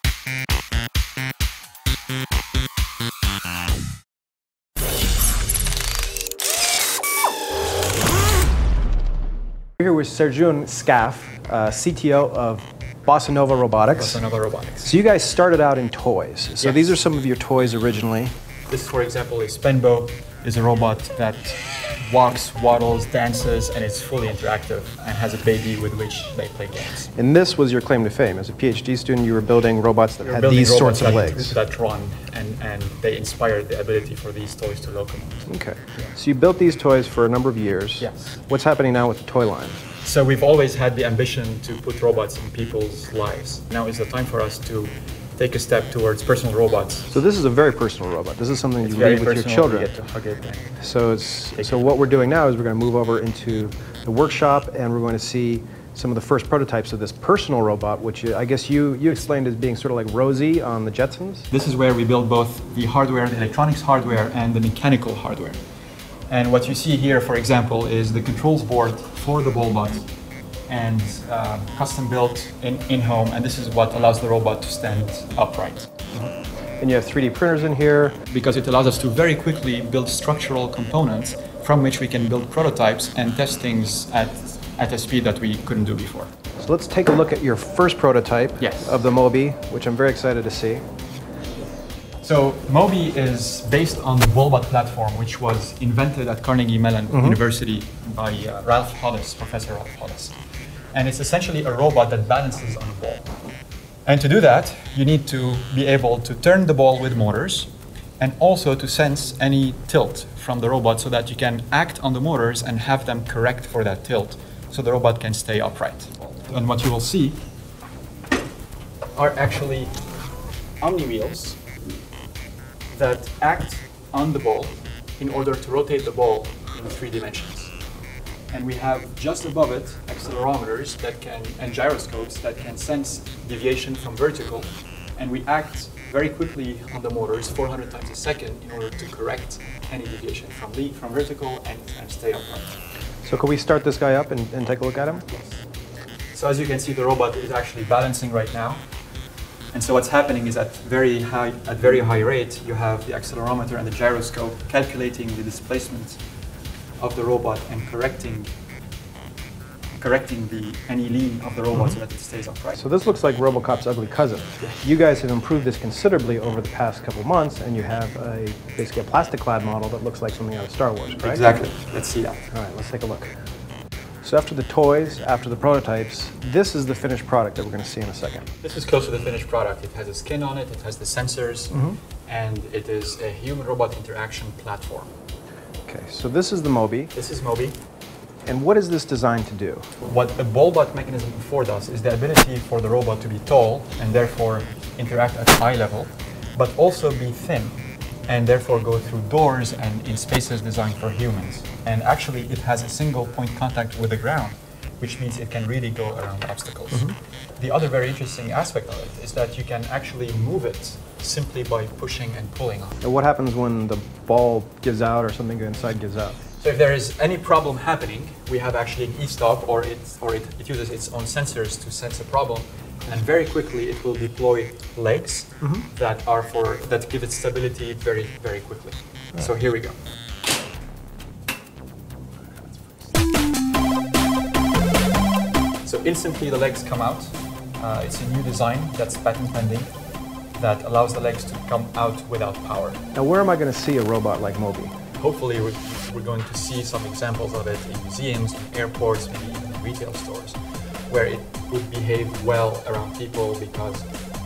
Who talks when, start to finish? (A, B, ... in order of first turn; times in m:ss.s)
0:09.8-0:14.2 A
0:13.9-0:14.9 B
0:14.8-0:18.3 A
0:16.6-0:16.9 B
0:18.7-0:27.1 B
0:27.2-0:31.5 A
0:30.2-0:35.4 B
0:35.5-0:39.8 A
0:38.0-0:38.4 B
0:40.0-0:47.1 B
0:47.1-0:49.9 A
0:48.8-0:50.8 B
0:50.8-1:01.5 A
0:51.6-0:52.0 B
1:01.5-1:05.6 B
1:06.3-1:10.1 B
1:10.7-1:15.9 B
1:16.1-1:18.2 A
1:18.3-1:26.3 B
1:26.6-1:30.8 A
1:28.6-1:29.0 B
1:32.2-1:40.3 B
1:37.1-1:37.4 A
1:40.9-1:43.3 B
1:44.0-1:57.4 B
1:59.2-1:59.9 B
2:00.8-2:01.6 B
2:02.9-2:07.7 B
2:08.5-2:22.8 B
2:23.2-2:25.2 A
2:26.3-2:28.8 B
2:29.7-2:36.2 B
2:37.0-2:38.5 B
2:40.0-2:42.8 B
2:42.8-2:51.4 A
2:51.2-2:52.5 B
2:52.5-2:53.3 A
2:54.2-2:58.4 A
2:58.6-3:05.1 B
3:01.7-3:02.0 A
3:05.9-3:07.1 A
3:07.1-3:07.8 B
3:08.4-3:09.8 A
3:10.0-3:33.0 B
3:33.0-3:36.4 A
3:36.6-3:50.0 B
3:55.8-3:59.9 B
4:00.6-4:03.0 B
4:03.1-4:04.9 A
4:05.2-4:10.6 B
4:11.1-4:14.1 B